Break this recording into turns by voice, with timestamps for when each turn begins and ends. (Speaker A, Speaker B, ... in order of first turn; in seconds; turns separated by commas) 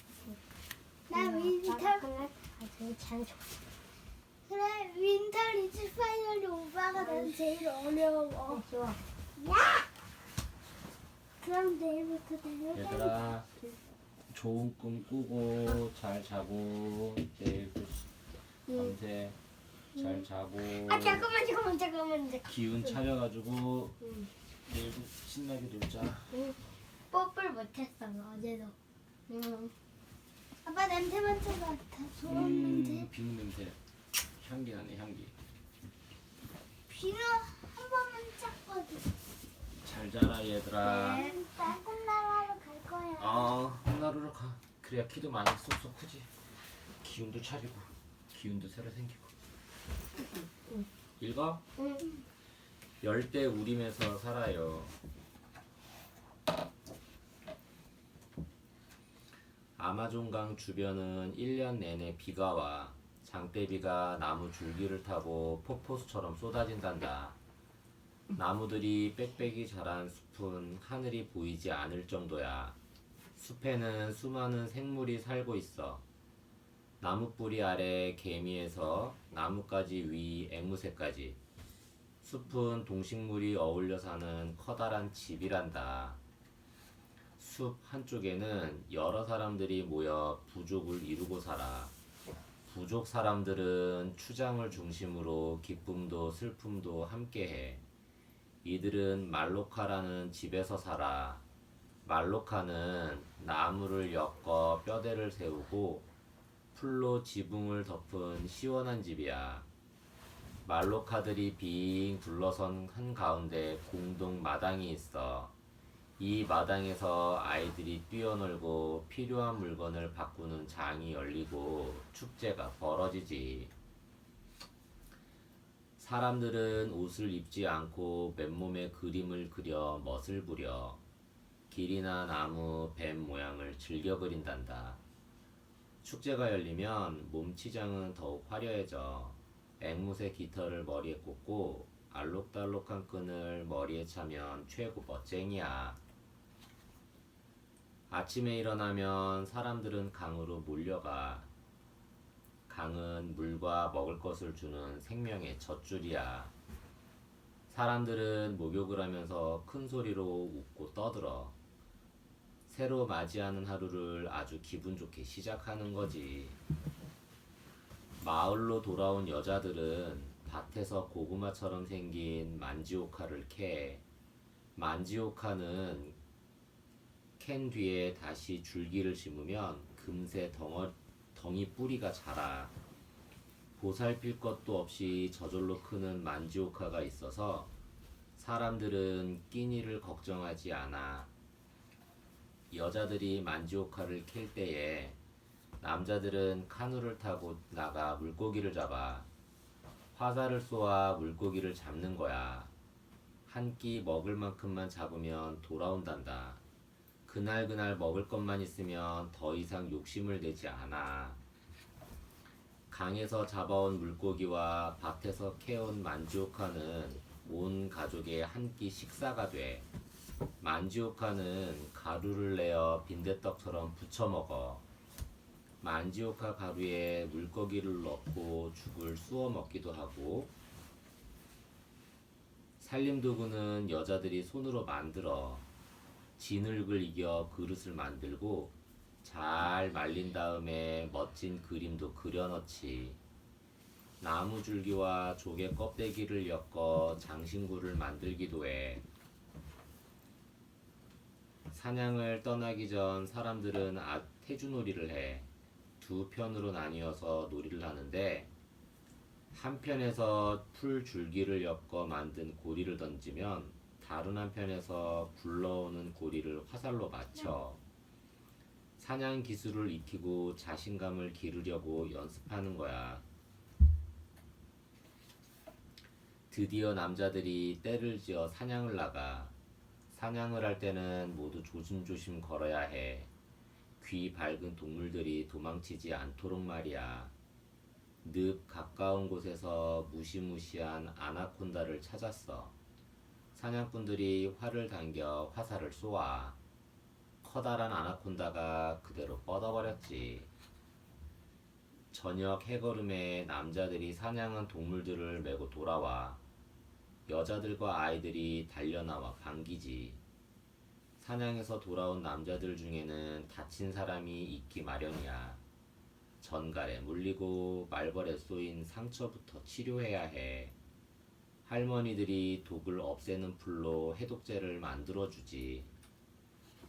Speaker A: 1.1-2.1, Speaker B: 1.1-3.4, Speaker A: 4.5-8.6, Speaker B: 7.0-7.4, Speaker B: 8.5-9.0, Speaker A: 9.4-9.9, Speaker A: 11.4-13.3, Speaker C: 12.7-13.4, Speaker C: 14.3-18.0, Speaker A: 18.7-18.9, Speaker C: 18.8-19.4, Speaker A: 20.0-22.9, Speaker C: 20.0-21.2, Speaker C: 22.5-23.9, Speaker C: 24.7-26.2, Speaker A: 27.1-28.8, Speaker B: 29.3-29.7, Speaker A: 30.6-33.1, Speaker C: 32.3-33.8, Speaker C: 34.4-35.3, Speaker A: 36.9-39.1, Speaker C: 39.9-41.2, Speaker A: 40.8-43.5, Speaker B: 40.8-41.3, Speaker C: 43.2-46.3, Speaker C: 47.0-49.2, Speaker C: 51.2-51.6, Speaker C: 53.0-54.9, Speaker C: 59.8-67.4, Speaker C: 68.4-72.8, Speaker C: 73.4-76.0, Speaker C: 77.0-81.4, Speaker C: 82.2-86.2, Speaker C: 87.4-91.9, Speaker C: 92.7-97.8, Speaker C: 98.6-101.4, Speaker C: 102.0-106.1, Speaker C: 106.7-109.7, Speaker C: 110.7-115.5, Speaker C: 116.2-123.7, Speaker C: 126.0-131.0, Speaker C: 131.7-135.0, Speaker C: 136.0-146.0, Speaker C: 148.1-151.5, Speaker C: 152.7-156.5, Speaker C: 157.7-161.6, Speaker C: 162.7-166.6, Speaker C: 168.2-174.0, Speaker C: 174.8-176.2, Speaker C: 177.4-182.7, Speaker C: 183.8-187.7, Speaker C: 188.4-191.3, Speaker C: 192.7-195.2, Speaker C: 195.8-199.3, Speaker C: 200.1-202.7, Speaker C: 203.5-206.6, Speaker C: 207.3-211.4, Speaker C: 212.9-219.9, Speaker C: 220.6-224.8, Speaker C: 225.8-230.5, Speaker C: 232.8-235.7, Speaker C: 236.4-243.2, Speaker C: 244.2-249.1, Speaker C: 251.7-255.5, Speaker C: 256.0-258.5, Speaker C: 259.5-267.8, Speaker C: 269.0-273.2, Speaker C: 276.5-279.5, Speaker C: 280.1-283.3, Speaker C: 284.0-287.3, Speaker C: 288.2-292.8, Speaker C: 293.6-296.6, Speaker C: 297.4-300.5, Speaker C: 302.1-306.4, Speaker C: 307.3-310.2, Speaker C: 311.2-315.6, Speaker C: 316.4-320.7, Speaker C: 321.6-325.9